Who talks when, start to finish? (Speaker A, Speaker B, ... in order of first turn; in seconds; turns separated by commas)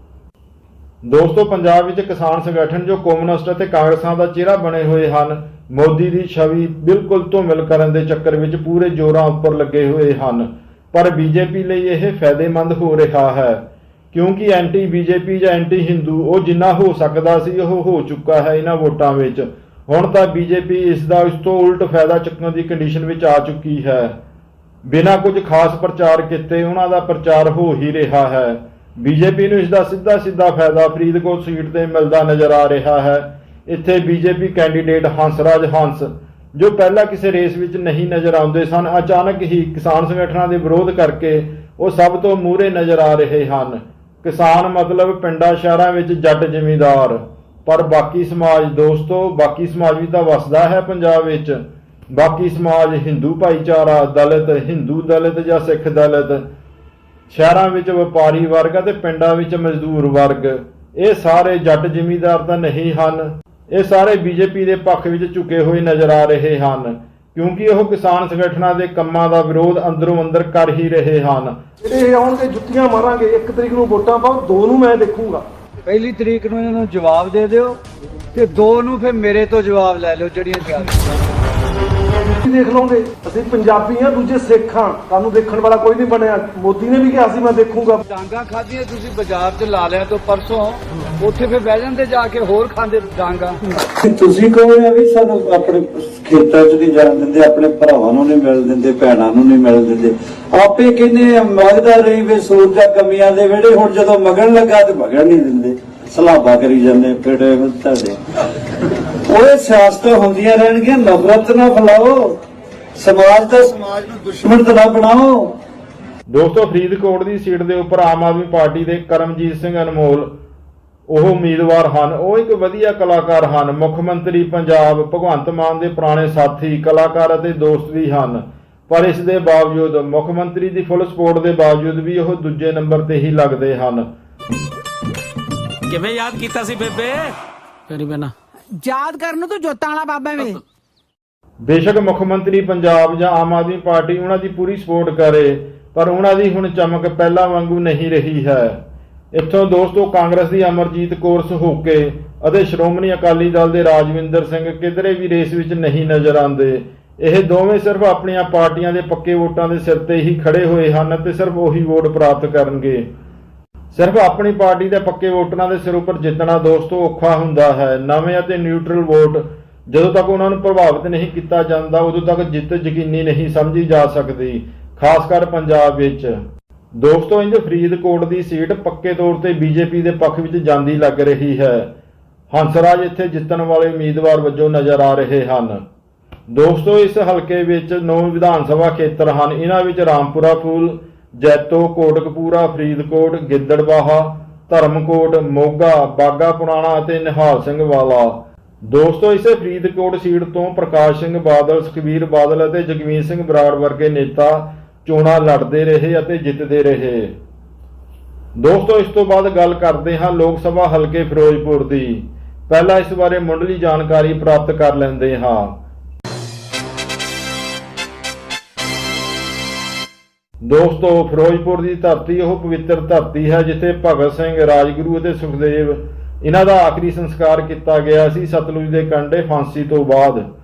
Speaker A: 1.0-24.2, Speaker A: 24.9-51.6, Speaker A: 52.1-56.4, Speaker A: 57.3-71.6, Speaker B: 71.8-75.5, Speaker C: 75.9-77.8, Speaker C: 78.3-81.0, Speaker B: 82.4-88.0, Speaker C: 88.1-93.6, Speaker D: 94.0-108.2, Speaker D: 109.1-112.4, Speaker D: 113.0-115.5, Speaker A: 116.3-120.4, Speaker A: 121.1-134.1, Speaker E: 135.9-137.3, Speaker E: 137.9-138.3, Speaker F: 137.9-138.2, Speaker F: 138.7-140.6, Speaker A: 141.6-148.8, Speaker A: 149.3-163.1, Speaker A: 163.9-176.4, Speaker A: 176.9-181.9, Speaker A: 182.5-185.8, Speaker A: 186.5-207.3, Speaker A: 208.6-215.8, Speaker A: 220.6-230.4